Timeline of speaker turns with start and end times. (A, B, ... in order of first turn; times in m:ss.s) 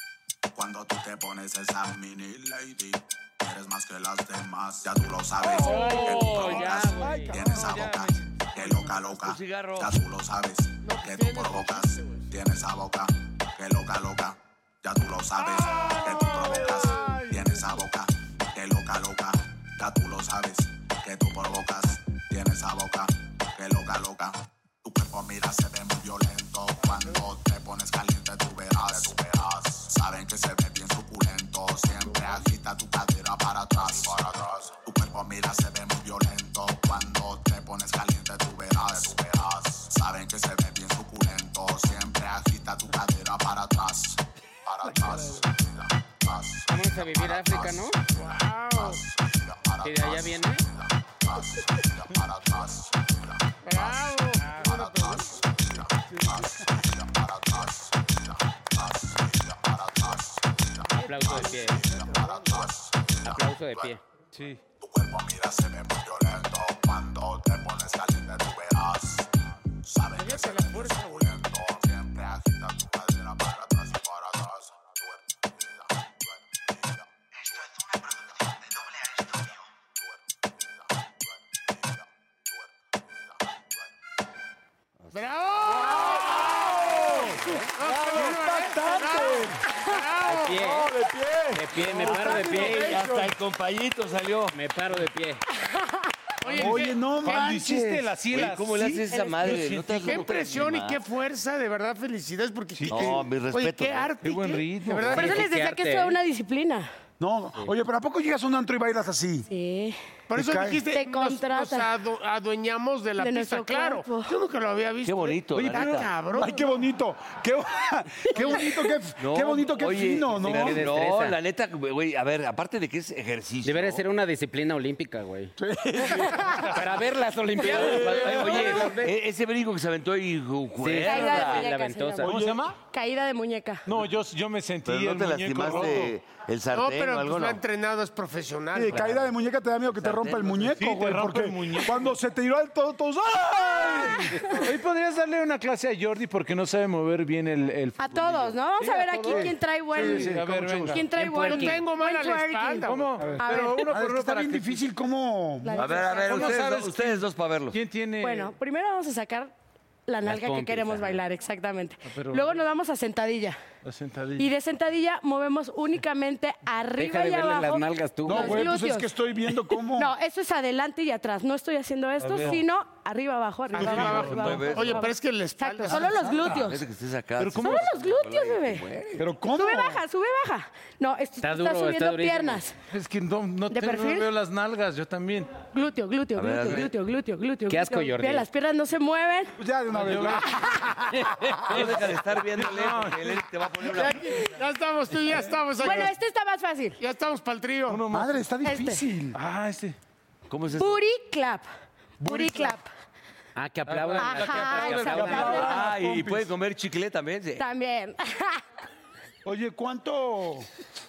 0:00.5-1:04.0 A
0:05.5-0:09.0 B
0:05.7-0:07.4 C
0:09.1-0:09.9 D
0:10.8-0:12.3 E
0:15.7-0:17.2 B
0:15.8-0:17.3 E
0:26.9-0:27.1 E
0:45.0-0:45.4 E
0:46.7-0:48.0 C
0:48.1-0:49.0 E
0:49.8-0:50.6 C
0:53.6-0:55.4 E
0:54.4-0:54.8 B
1:01.0-1:01.9 C
1:01.0-1:02.7 E
1:03.2-1:04.0 C
1:04.3-1:04.6 B
1:04.8-1:17.1 A
1:10.2-1:11.4 E
1:20.6-1:22.7 A
1:25.0-1:25.3 D
1:25.1-1:30.7 E
1:25.7-1:29.6 F
1:30.3-1:30.9 C
1:30.4-1:33.4 F
1:31.5-1:33.0 C
1:32.4-1:34.6 D
1:34.5-1:35.4 C
1:36.4-1:37.0 E
1:36.5-1:40.2 B
1:36.5-1:38.1 F
1:38.3-1:41.0 D
1:39.1-1:39.4 G
1:40.0-1:45.5 E
1:42.8-1:43.2 B
1:42.9-1:44.1 D
1:44.2-1:45.2 B
1:45.1-1:46.2 C
1:45.2-1:46.9 G
1:47.2-1:49.5 F
1:49.5-1:50.0 G
1:50.3-1:56.7 E
1:50.3-1:50.8 F
1:50.9-1:51.9 G
1:53.2-1:54.4 G
1:55.0-1:56.1 D
1:55.6-2:00.8 F
1:59.2-2:04.0 D
2:00.5-2:01.4 C
2:03.6-2:05.5 C
2:05.6-2:06.7 F
2:06.5-2:06.8 B
2:06.7-2:09.1 C
2:07.6-2:08.6 F
2:07.7-2:08.8 B
2:07.8-2:11.6 D
2:10.8-2:12.2 C
2:11.0-2:13.8 G
2:12.2-2:12.7 F
2:12.2-2:12.8 B
2:13.8-2:16.2 B
2:14.8-2:17.6 D
2:16.7-2:19.1 E
2:18.7-2:24.4 F
2:18.9-2:19.2 D
2:19.9-2:20.6 D
2:20.6-2:22.1 B
2:24.3-2:31.1 B
2:28.0-2:30.3 G
2:29.2-2:30.4 F
2:30.0-2:31.0 D
2:30.9-2:33.9 G
2:31.0-2:31.8 C
2:31.5-2:33.2 E
2:32.8-2:34.8 B
2:33.2-2:36.0 F
2:35.6-2:36.6 G
2:35.8-2:37.8 D
2:36.2-2:38.5 B
2:38.2-2:39.5 G
2:40.1-2:43.6 G
2:40.2-2:41.2 C
2:42.1-2:42.6 B
2:43.8-2:44.5 B
2:44.4-2:49.1 G
2:47.0-2:48.7 C
2:48.2-2:50.1 F
2:49.9-2:56.8 G
2:52.2-2:52.6 B
2:53.7-2:56.5 E
2:53.7-2:54.7 B
2:54.1-2:55.1 D
2:56.0-2:56.6 F
2:56.4-2:59.2 D
2:57.4-2:57.9 B
2:57.6-2:58.9 G
2:59.2-3:00.0 F
2:59.4-3:02.7 G
3:01.4-3:02.6 C
3:02.9-3:05.6 B
3:03.7-3:04.3 G
3:05.6-3:09.5 G
3:06.3-3:06.9 D
3:07.7-3:08.4 C
3:09.6-3:11.8 F
3:09.9-3:10.5 B
3:11.2-3:11.6 C
3:11.7-3:14.2 D
3:12.6-3:13.4 B
3:13.8-3:16.1 E
3:15.8-3:17.0 G
3:17.0-3:18.0 E
3:17.9-3:18.4 B
3:18.1-3:19.4 F
3:18.6-3:19.0 G
3:19.3-3:20.0 B
3:20.5-3:20.9 D
3:20.8-3:21.7 G
3:22.2-3:22.8 F
3:22.2-3:22.8 G
3:23.6-3:25.5 C
3:23.9-3:25.8 B
3:24.2-3:25.7 G
3:25.0-3:26.5 F
3:25.5-3:27.6 D
3:27.6-3:28.6 G
3:29.4-3:30.7 F